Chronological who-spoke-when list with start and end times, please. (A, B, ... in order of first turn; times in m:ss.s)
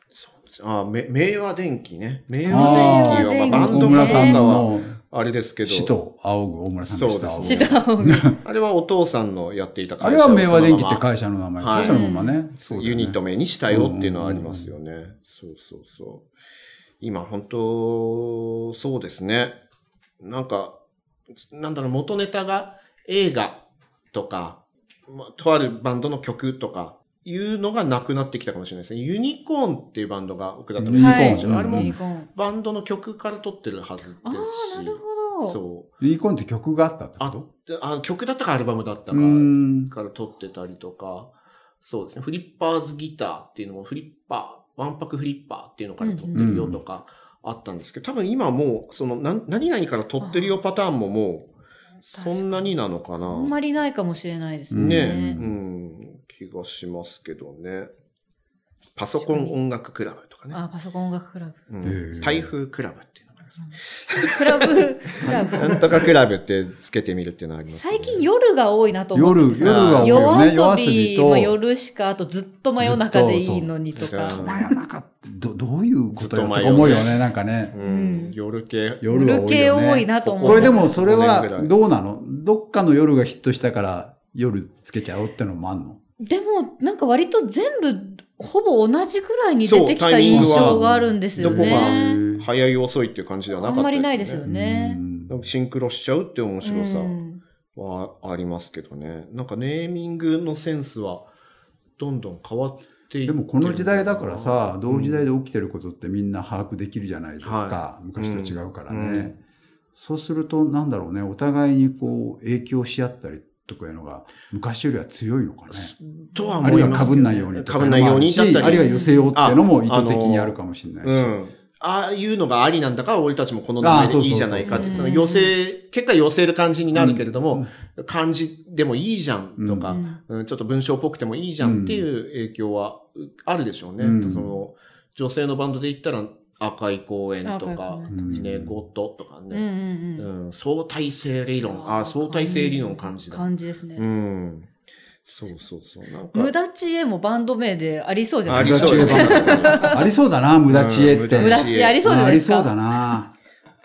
0:00.1-0:06.0 A
0:02.5-0:04.5 B
0:02.5-0:05.0 C
0:05.6-0:08.4 C
0:06.9-0:07.8 A
0:07.4-0:08.3 B
0:08.4-0:11.0 A
0:10.0-0:13.2 C
0:11.6-0:12.0 A
0:11.8-0:12.4 B
0:12.6-0:16.3 A
0:13.7-0:14.7 C
0:17.0-0:19.6 A
0:20.2-0:20.8 A
0:21.5-0:35.9 A
0:30.8-0:31.9 C
0:31.0-0:32.3 B
0:34.2-0:35.6 B
0:36.0-0:37.4 C
0:37.2-0:51.5 A
0:39.1-0:39.9 C
0:46.0-0:46.3 B
0:46.4-0:46.8 C
0:50.2-0:50.6 B
0:52.0-0:53.5 A
0:52.2-0:55.4 B
0:54.7-0:55.6 C
0:54.7-0:57.9 A
0:59.0-1:00.6 A
0:59.2-0:59.6 B
1:00.5-1:01.6 B
1:01.7-1:08.2 A
1:01.8-1:02.5 C
1:03.6-1:05.9 B
1:07.7-1:14.7 B
1:09.2-1:11.5 C
1:09.6-1:10.3 A
1:12.8-1:17.8 C
1:14.0-1:14.7 A
1:16.1-1:17.2 A
1:17.7-1:19.1 A
1:17.8-1:18.4 B
1:19.0-1:26.0 C
1:19.1-1:20.8 B
1:20.2-1:21.7 A
1:26.2-1:32.2 B
1:29.6-1:30.8 A
1:30.3-1:32.5 C
1:31.3-1:34.4 A
1:33.6-1:35.0 B
1:34.5-1:35.4 C
1:35.3-1:37.2 A
1:36.6-1:37.4 B
1:37.8-1:41.3 A
1:42.0-1:45.2 A
1:43.2-1:49.4 C
1:47.4-1:49.4 A
1:50.0-1:55.9 C
1:55.7-2:19.7 A
1:56.4-1:57.2 B
1:56.6-2:01.3 C
1:58.6-1:59.4 B
2:03.8-2:05.1 C
2:04.6-2:05.5 B
2:06.9-2:07.7 C
2:09.6-2:10.0 C
2:09.9-2:10.2 B
2:11.6-2:12.1 C
2:14.0-2:14.5 C
2:17.4-2:18.3 B
2:18.1-2:18.8 C
2:19.5-2:20.3 B
2:20.2-2:24.7 A
2:21.6-2:24.0 B
2:25.2-2:26.5 A
2:26.3-2:30.0 B
2:28.5-2:30.0 A
2:28.5-2:33.3 C
2:30.7-2:32.0 A
2:31.4-2:32.8 B